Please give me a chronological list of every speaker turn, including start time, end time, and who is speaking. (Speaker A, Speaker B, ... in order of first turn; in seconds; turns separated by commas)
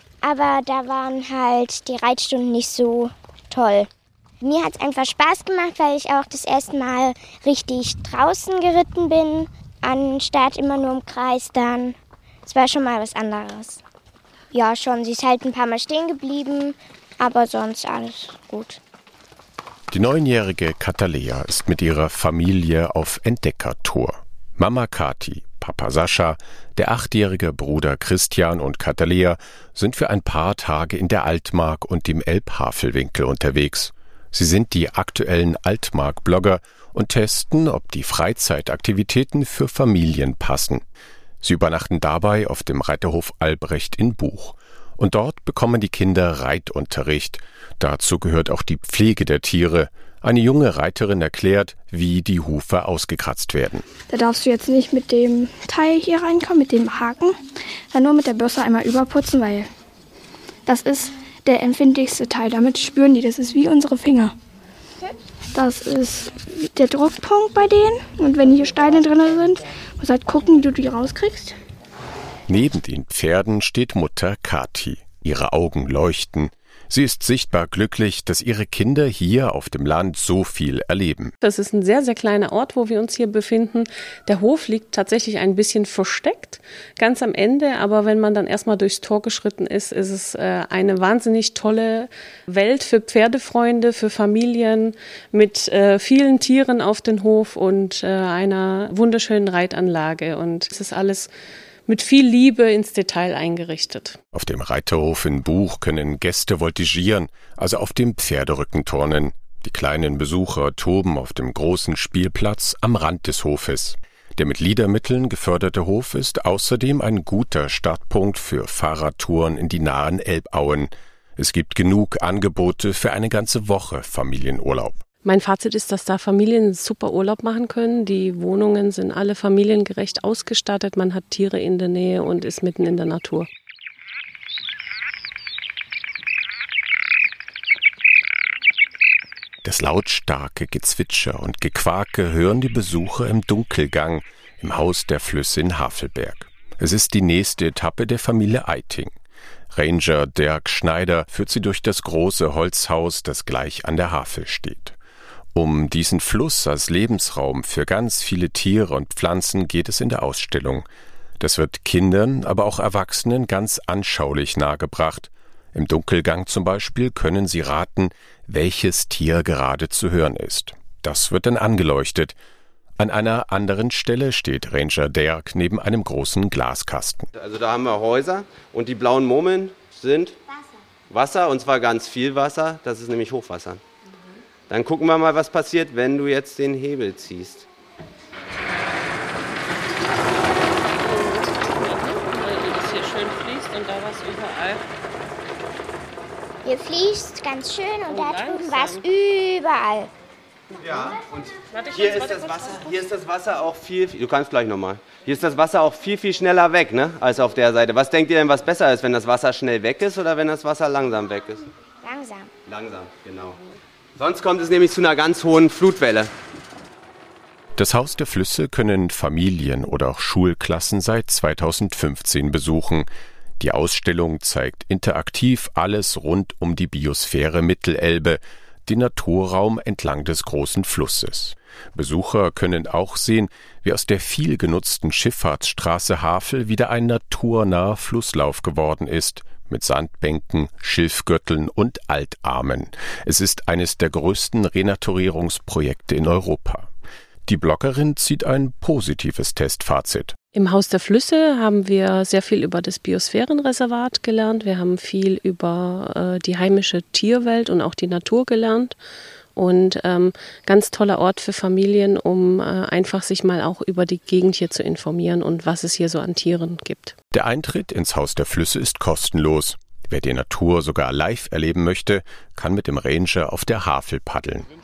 Speaker A: 0.2-3.9, Speaker A: 4.4-13.8, Speaker A: 14.5-18.8, Speaker B: 19.9-40.8, Speaker B: 41.4-53.9, Speaker C: 54.1-57.4, Speaker C: 57.9-59.7, Speaker C: 60.7-64.3, Speaker C: 65.5-71.6, Speaker B: 72.5-81.3, Speaker D: 81.4-101.3, Speaker D: 101.9-104.2, Speaker B: 104.3-125.0, Speaker D: 125.2-133.5, Speaker B: 139.6-149.1, Speaker B: 149.7-155.0, Speaker B: 155.6-160.9, Speaker B: 161.4-172.3, Speaker B: 173.0-177.3, Speaker E: 177.3-180.4, Speaker E: 181.1-183.8, Speaker E: 184.7-187.7, Speaker D: 190.8-194.8, Speaker A: 196.6-200.1, Speaker D: 198.1-199.1, Speaker E: 200.8-211.7, Speaker D: 201.7-202.9, Speaker A: 212.0-212.5, Speaker E: 212.7-213.6, Speaker E: 214.2-216.3, Speaker B: 217.8-223.1, Speaker B: 223.6-246.9, Speaker B: 247.5-250.4, Speaker D: 250.5-259.0, Speaker D: 259.6-267.1, Speaker B: 267.3-274.7